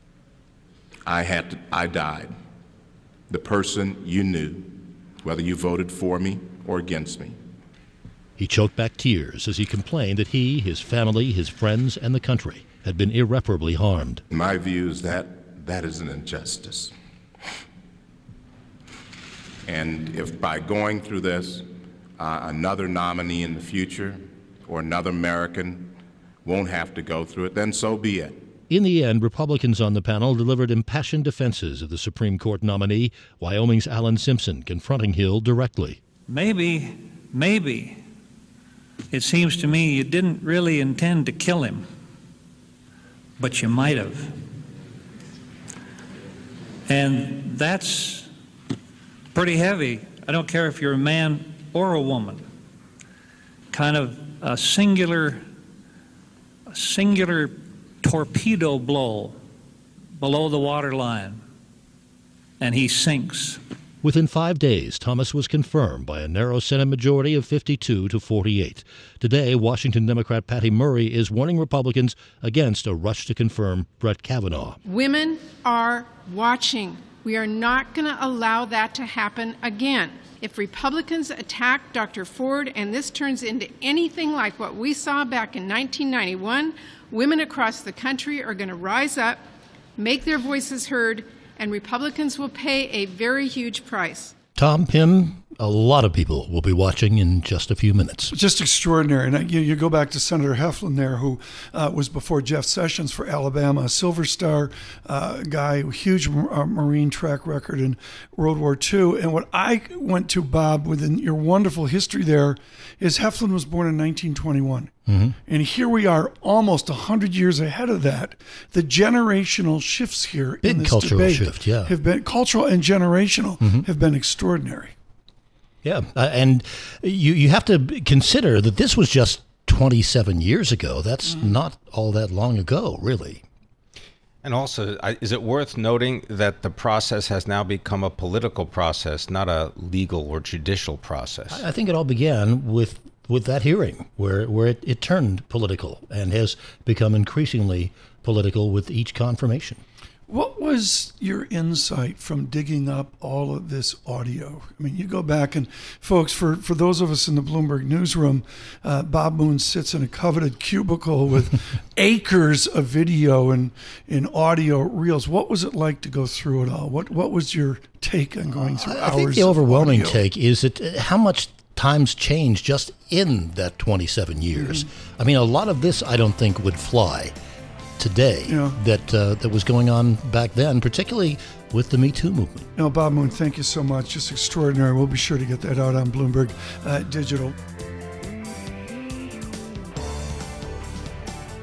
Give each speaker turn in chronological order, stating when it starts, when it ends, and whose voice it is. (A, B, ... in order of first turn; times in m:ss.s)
0:01.1-0:02.3 A
0:03.3-0:07.4 A
0:08.4-0:14.2 B
0:14.3-0:16.9 A
0:19.6-0:21.7 A
0:22.2-0:28.3 A
0:28.7-0:36.0 B
0:36.3-0:38.0 C
0:39.1-0:41.9 C
0:43.4-0:44.4 C
0:46.9-0:48.3 C
0:49.3-0:52.5 C
0:53.7-0:55.4 C
0:56.7-0:59.4 C
1:00.1-1:01.4 C
1:02.6-1:03.6 C
1:04.0-1:14.8 B
1:14.9-1:29.4 D
1:30.0-1:34.3 D
1:34.6-1:38.3 B
1:38.3-1:54.9 E
1:55.1-1:55.4 B
1:55.4-2:04.9 E
2:00.6-2:01.9 B
2:05.8-2:13.4 B
2:14.4-2:21.6 F
2:21.5-2:29.8 B
2:30.3-2:50.2 E
2:48.6-2:57.3 B
2:54.6-2:54.9 E
2:58.0-3:02.7 B
2:58.5-2:58.8 E
3:02.8-3:07.6 E